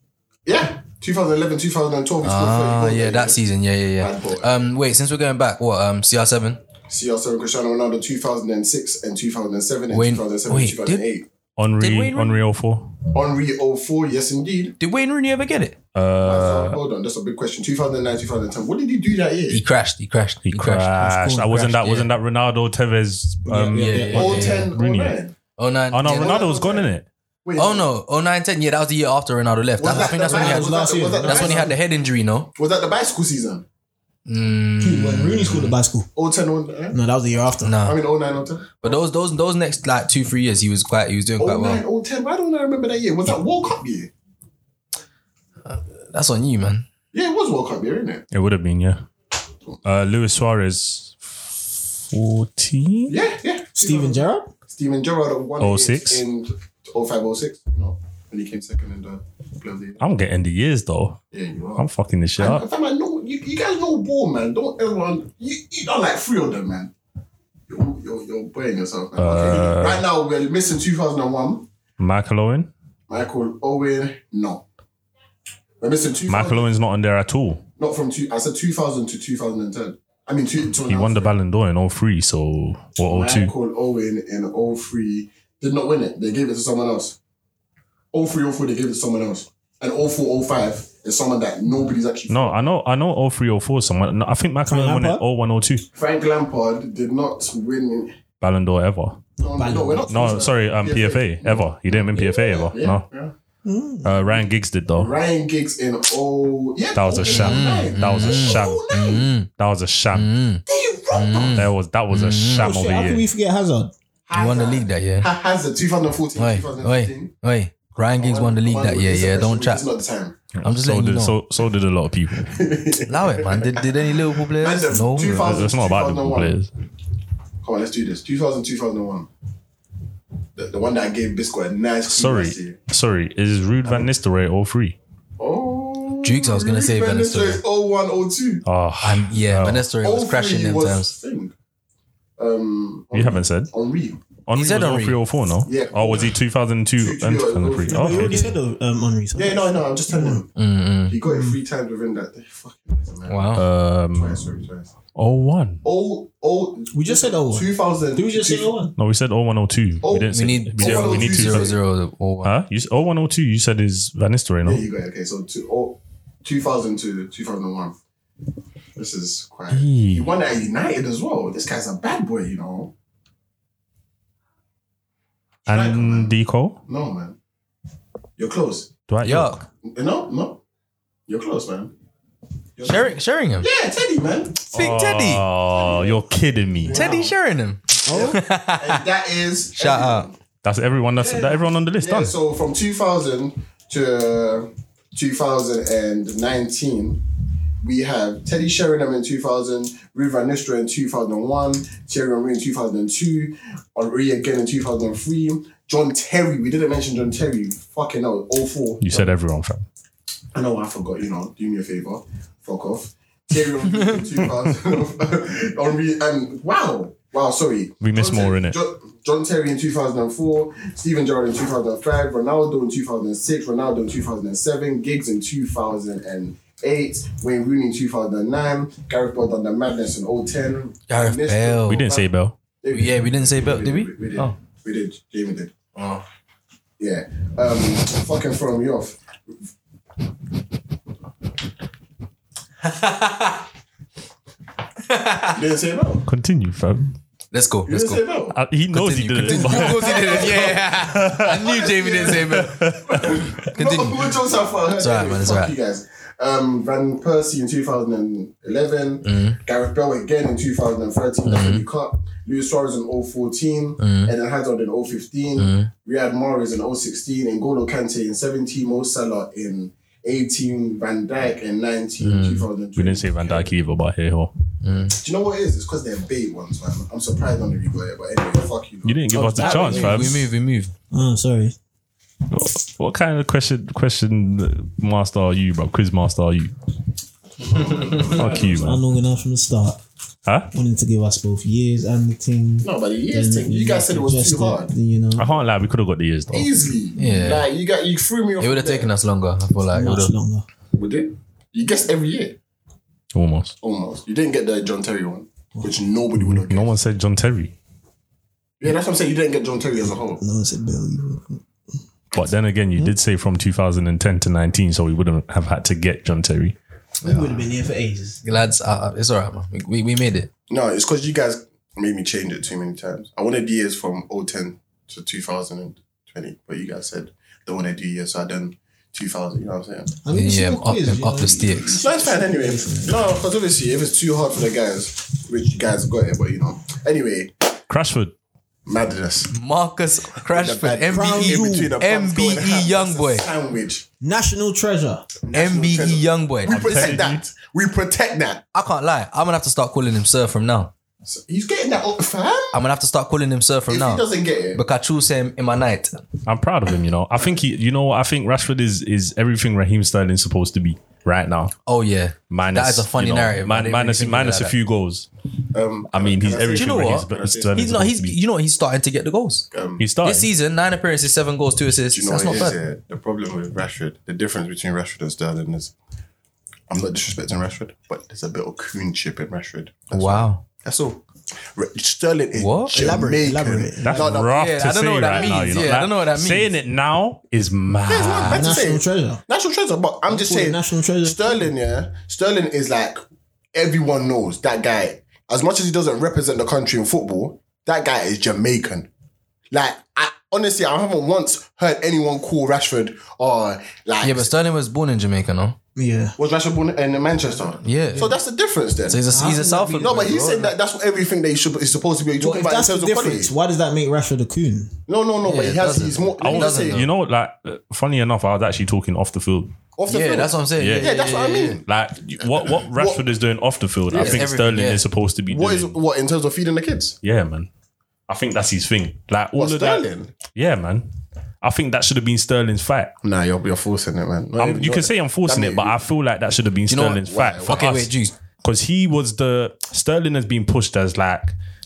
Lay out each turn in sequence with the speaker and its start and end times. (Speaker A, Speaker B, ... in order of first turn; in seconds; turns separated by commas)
Speaker A: 0.5-3.4, Speaker B: 2.2-6.6, Speaker A: 4.0-4.6, Speaker A: 6.9-11.3, Speaker B: 9.9-11.1, Speaker C: 11.6-12.9, Speaker B: 11.8-12.4, Speaker A: 13.1-14.8, Speaker B: 14.8-15.8, Speaker C: 15.9-16.8, Speaker A: 16.2-19.6, Speaker B: 19.5-22.1, Speaker C: 20.4-25.2, Speaker D: 21.0-21.8, Speaker D: 23.4-24.5, Speaker B: 23.8-24.7, Speaker A: 23.9-25.3, Speaker B: 25.6-26.4, Speaker C: 25.9-27.1, Speaker A: 26.1-26.9, Speaker A: 27.4-27.9, Speaker B: 27.6-32.5, Speaker A: 29.8-31.7, Speaker D: 29.8-31.7, Speaker A: 32.5-33.6, Speaker B: 34.3-35.8, Speaker D: 34.8-36.1, Speaker A: 36.1-37.0, Speaker D: 36.9-37.8, Speaker B: 37.6-38.0, Speaker A: 37.8-39.0, Speaker B: 38.8-41.8, Speaker A: 41.4-44.1, Speaker B: 45.6-46.9, Speaker A: 47.1-48.2, Speaker C: 48.3-49.0, Speaker C: 49.8-51.4, Speaker C: 52.1-53.1, Speaker A: 53.1-60.0, Speaker D: 53.7-54.5, Speaker C: 55.6-56.2, Speaker C: 60.0-61.2, Speaker A: 61.3-61.9, Speaker C: 61.8-62.6, Speaker A: 62.4-66.9, Speaker A: 67.7-71.7, Speaker C: 69.2-70.0, Speaker C: 72.0-72.7, Speaker A: 73.1-74.6, Speaker A: 75.8-76.7, Speaker C: 76.3-77.6, Speaker A: 77.8-81.3, Speaker C: 80.9-83.5, Speaker A: 83.0-87.2, Speaker A: 88.1-92.6, Speaker C: 92.3-95.8, Speaker D: 94.7-95.2, Speaker A: 95.9-98.1, Speaker C: 98.4-99.2, Speaker A: 99.4-103.3, Speaker D: 99.5-100.1, Speaker C: 100.1-103.0, Speaker D: 103.6-104.1, Speaker C: 104.0-105.1, Speaker A: 104.1-109.3, Speaker C: 107.0-108.8, Speaker B: 107.2-109.5, Speaker C: 109.6-110.3, Speaker B: 110.1-112.8, Speaker A: 110.7-111.6, Speaker C: 111.5-113.3, Speaker D: 112.5-113.9, Speaker A: 114.3-117.3, Speaker B: 114.3-115.3, Speaker B: 116.3-119.8, Speaker A: 118.0-120.3, Speaker C: 120.5-122.6, Speaker B: 120.6-121.3, Speaker A: 122.5-126.5, Speaker B: 123.1-125.5, Speaker C: 125.2-126.7, Speaker A: 127.6-129.3, Speaker A: 130.6-132.8, Speaker C: 132.1-135.0, Speaker A: 133.8-134.1, Speaker A: 135.4-138.6, Speaker B: 136.2-137.6, Speaker C: 138.6-139.8, Speaker B: 139.0-141.1, Speaker A: 140.0-141.5, Speaker A: 142.4-144.2, Speaker C: 143.1-143.7, Speaker C: 144.5-148.5, Speaker B: 144.5-145.2, Speaker A: 145.6-146.4, Speaker A: 147.0-148.5, Speaker D: 147.9-150.4, Speaker A: 149.3-150.5, Speaker B: 150.6-151.2, Speaker A: 151.1-154.9, Speaker D: 151.2-151.6, Speaker B: 153.3-153.6, Speaker C: 153.5-154.5, Speaker C: 155.1-155.8, Speaker A: 155.8-158.7, Speaker D: 156.9-158.9, Speaker C: 158.9-161.7, Speaker A: 160.0-161.7, Speaker B: 160.3-162.5, Speaker C: 162.4-164.8, Speaker A: 164.6-167.9, Speaker A: 168.9-172.9, Speaker C: 169.7-170.3, Speaker A: 175.7-176.3, Speaker C: 175.7-176.8, Speaker A: 176.9-177.4, Speaker A: 178.4-178.9, Speaker C: 179.1-179.6, Speaker B: 179.2-179.6, Speaker A: 179.8-180.6, Speaker A: 181.3-181.9, Speaker A: 182.8-184.7, Speaker B: 182.8-183.7, Speaker B: 184.7-185.4, Speaker C: 184.7-187.1, Speaker A: 185.7-186.2, Speaker D: 186.8-187.3, Speaker A: 186.8-187.3, Speaker B: 186.9-189.0, Speaker D: 188.1-188.4, Speaker A: 188.1-190.3, Speaker B: 189.7-190.3, Speaker C: 190.6-192.3, Speaker A: 191.2-197.2, Speaker A: 197.8-209.3, Speaker C: 209.0-209.9, Speaker A: 210.5-232.3, Speaker B: 213.9-214.2, Speaker C: 218.0-218.8, Speaker B: 231.1-232.0, Speaker C: 231.8-232.5, Speaker A: 232.8-235.7, Speaker B: 232.9-234.5, Speaker B: 235.9-236.2, Speaker A: 237.0-239.2, Speaker B: 242.8-243.6, Speaker B: 245.1-245.6, Speaker A: 245.5-246.2, Speaker C: 246.3-247.2, Speaker B: 247.5-248.2, Speaker A: 247.8-248.6, Speaker C: 248.5-251.5, Speaker B: 248.9-254.3, Speaker A: 249.4-273.7, Speaker C: 252.3-253.5, Speaker B: 255.0-255.7, Speaker B: 259.2-259.6, Speaker B: 261.4-261.8, Speaker B: 264.0-264.3, Speaker B: 265.6-265.9, Speaker B: 272.2-272.6, Speaker C: 272.9-274.5, Speaker B: 274.8-275.1, Speaker A: 275.1-279.3, Speaker C: 279.0-280.5, Speaker D: 279.3-280.5, Speaker B: 279.6-280.9, Speaker D: 281.1-281.7, Speaker C: 282.5-286.7, Speaker A: 287.6-288.8, Speaker C: 288.0-289.0, Speaker D: 288.5-290.0, Speaker D: 290.7-295.5, Speaker A: 292.8-294.9, Speaker C: 295.4-296.7, Speaker A: 296.5-299.1, Speaker B: 297.1-297.6, Speaker B: 298.6-300.3, Speaker D: 299.9-300.6, Speaker A: 300.9-302.6, Speaker C: 303.3-303.7, Speaker A: 303.8-306.9, Speaker C: 306.4-307.7, Speaker A: 308.8-310.4, Speaker D: 310.4-311.6, Speaker C: 312.3-316.8, Speaker B: 317.2-317.6, Speaker D: 317.2-318.4, Speaker B: 318.4-320.5, Speaker A: 320.7-330.1, Speaker D: 330.2-333.1, Speaker B: 330.3-332.0, Speaker A: 332.0-337.5, Speaker C: 337.9-338.3, Speaker A: 338.9-339.5, Speaker B: 339.5-343.5, Speaker A: 340.5-344.1, Speaker D: 341.1-341.9, Speaker D: 344.2-345.3, Speaker A: 345.4-348.6, Speaker B: 345.5-347.2, Speaker C: 346.6-347.4, Speaker B: 348.7-350.9, Speaker A: 351.2-352.8, Speaker B: 352.7-356.2, Speaker A: 353.9-354.8, Speaker C: 356.4-361.7, Speaker B: 361.9-364.7, Speaker C: 362.5-365.3, Speaker A: 365.7-367.9, Speaker C: 366.1-368.4, Speaker B: 366.7-369.7, Speaker A: 369.7-370.1, Speaker C: 370.0-370.5, Speaker B: 370.2-372.8, Speaker A: 372.1-375.9, Speaker A: 376.9-381.2, Speaker B: 380.1-380.6, Speaker A: 381.7-384.6, Speaker B: 382.5-383.0, Speaker D: 382.9-384.3, Speaker C: 384.0-388.6, Speaker B: 384.5-386.7, Speaker A: 385.3-385.8, Speaker A: 388.1-393.2, Speaker D: 388.5-389.4, Speaker D: 390.3-391.7, Speaker A: 393.7-399.1, Speaker A: 399.7-404.5, Speaker B: 404.2-405.8, Speaker D: 405.9-406.4, Speaker A: 406.4-413.5, Speaker B: 407.8-408.3, Speaker B: 409.1-410.7, Speaker D: 409.3-410.1, Speaker D: 412.4-415.0, Speaker A: 415.1-417.0, Speaker B: 415.4-417.1, Speaker C: 416.4-419.7, Speaker A: 420.0-421.8, Speaker B: 420.1-421.8, Speaker C: 420.8-421.1, Speaker C: 421.9-425.9, Speaker A: 422.4-423.2, Speaker A: 424.1-424.4, Speaker B: 424.1-425.0, Speaker A: 425.5-427.1, Speaker C: 427.2-427.7, Speaker C: 428.3-431.1, Speaker A: 429.5-430.3, Speaker C: 431.6-433.1, Speaker A: 433.2-436.0, Speaker C: 434.6-438.1, Speaker B: 436.9-438.3, Speaker A: 437.2-437.9, Speaker C: 438.6-441.5